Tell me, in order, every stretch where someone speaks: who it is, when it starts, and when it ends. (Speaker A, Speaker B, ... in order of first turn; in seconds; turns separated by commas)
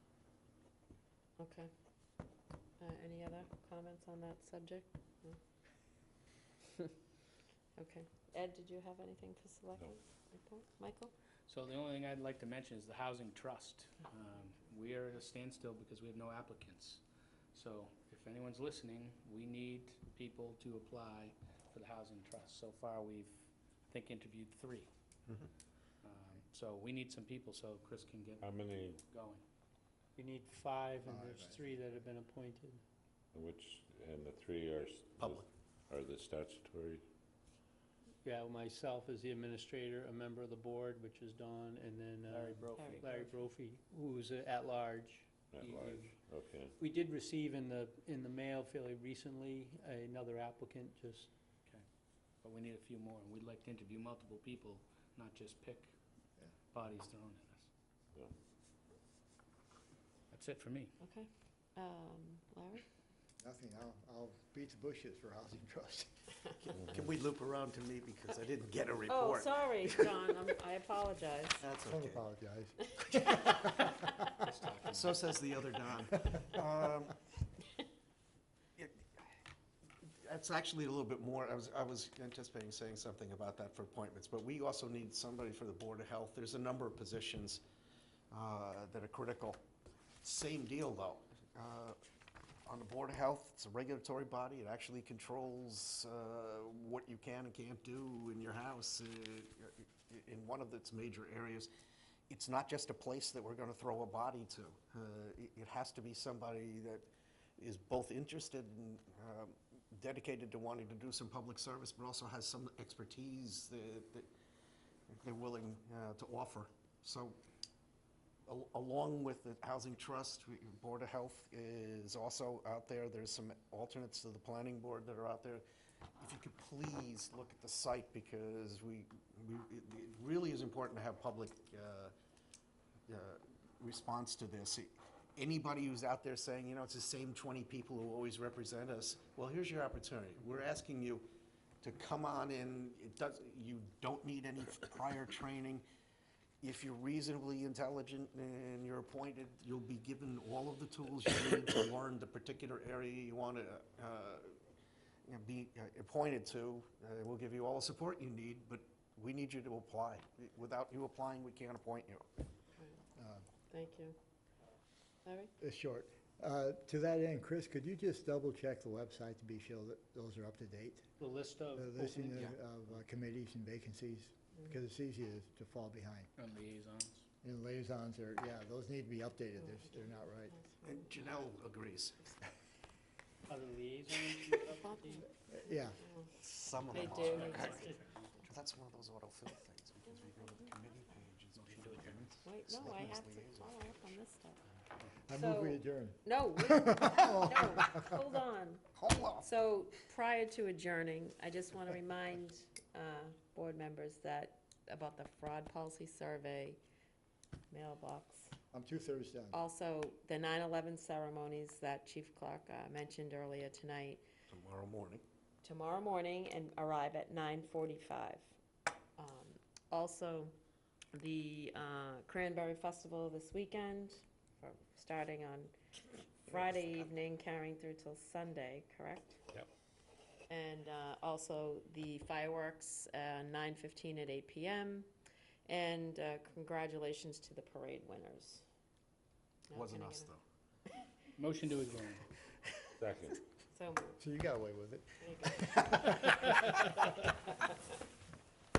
Speaker A: 1.4-1.7, Speaker A: 2.8-5.4, Speaker A: 7.8-11.1, Speaker B: 11.5-17.0, Speaker B: 17.5-24.9, Speaker B: 26.0-28.5, Speaker C: 28.4-29.0, Speaker B: 29.1-29.4, Speaker D: 30.2-32.8, Speaker E: 31.0-31.8, Speaker C: 33.3-37.0, Speaker F: 35.2-35.5, Speaker D: 38.2-46.1, Speaker B: 42.3-43.4, Speaker A: 42.7-43.0, Speaker C: 45.5-46.8, Speaker B: 45.6-45.9, Speaker D: 46.8-51.3, Speaker B: 52.4-55.9, Speaker B: 56.7-57.7, Speaker B: 60.3-61.0, Speaker A: 61.0-62.8, Speaker E: 63.4-66.1, Speaker F: 66.6-70.4, Speaker A: 69.1-71.6, Speaker F: 71.6-72.2, Speaker E: 71.9-74.3, Speaker A: 73.2-73.8, Speaker B: 74.4-75.2, Speaker F: 74.9-77.2, Speaker F: 78.8-79.1, Speaker F: 80.2-87.6, Speaker F: 88.3-89.6, Speaker F: 90.2-92.0, Speaker F: 92.7-101.7, Speaker F: 102.3-107.1, Speaker F: 107.6-114.3, Speaker F: 115.1-117.4, Speaker F: 118.5-125.6, Speaker F: 126.2-132.1, Speaker F: 133.1-141.3, Speaker F: 141.8-145.8, Speaker F: 146.6-154.6, Speaker F: 155.2-162.3, Speaker E: 163.2-163.5, Speaker A: 163.7-164.2, Speaker A: 165.2-165.5, Speaker E: 165.6-171.1, Speaker D: 171.2-172.5, Speaker E: 171.7-176.3, Speaker B: 176.4-177.2, Speaker E: 177.4-180.6, Speaker A: 179.6-181.1, Speaker F: 180.8-182.2, Speaker D: 183.5-185.2, Speaker A: 184.7-185.3, Speaker E: 185.5-186.0, Speaker A: 186.0-186.3, Speaker F: 186.3-187.9, Speaker A: 186.9-187.9, Speaker B: 187.1-188.4, Speaker D: 187.3-188.0, Speaker F: 188.4-194.2, Speaker B: 191.6-192.3, Speaker A: 192.4-194.6, Speaker E: 195.2-198.3, Speaker A: 195.3-206.8, Speaker F: 198.9-199.5, Speaker A: 207.7-208.5, Speaker E: 208.7-209.6, Speaker A: 209.5-214.2, Speaker F: 214.5-215.2, Speaker A: 215.6-218.6, Speaker A: 219.2-220.5, Speaker A: 221.1-225.7, Speaker A: 226.4-229.4, Speaker A: 230.5-235.1, Speaker A: 235.7-238.6, Speaker A: 239.7-240.3, Speaker F: 239.7-240.4, Speaker B: 241.4-242.2, Speaker C: 243.0-243.3, Speaker A: 243.7-244.2, Speaker E: 244.2-247.0, Speaker A: 245.2-246.1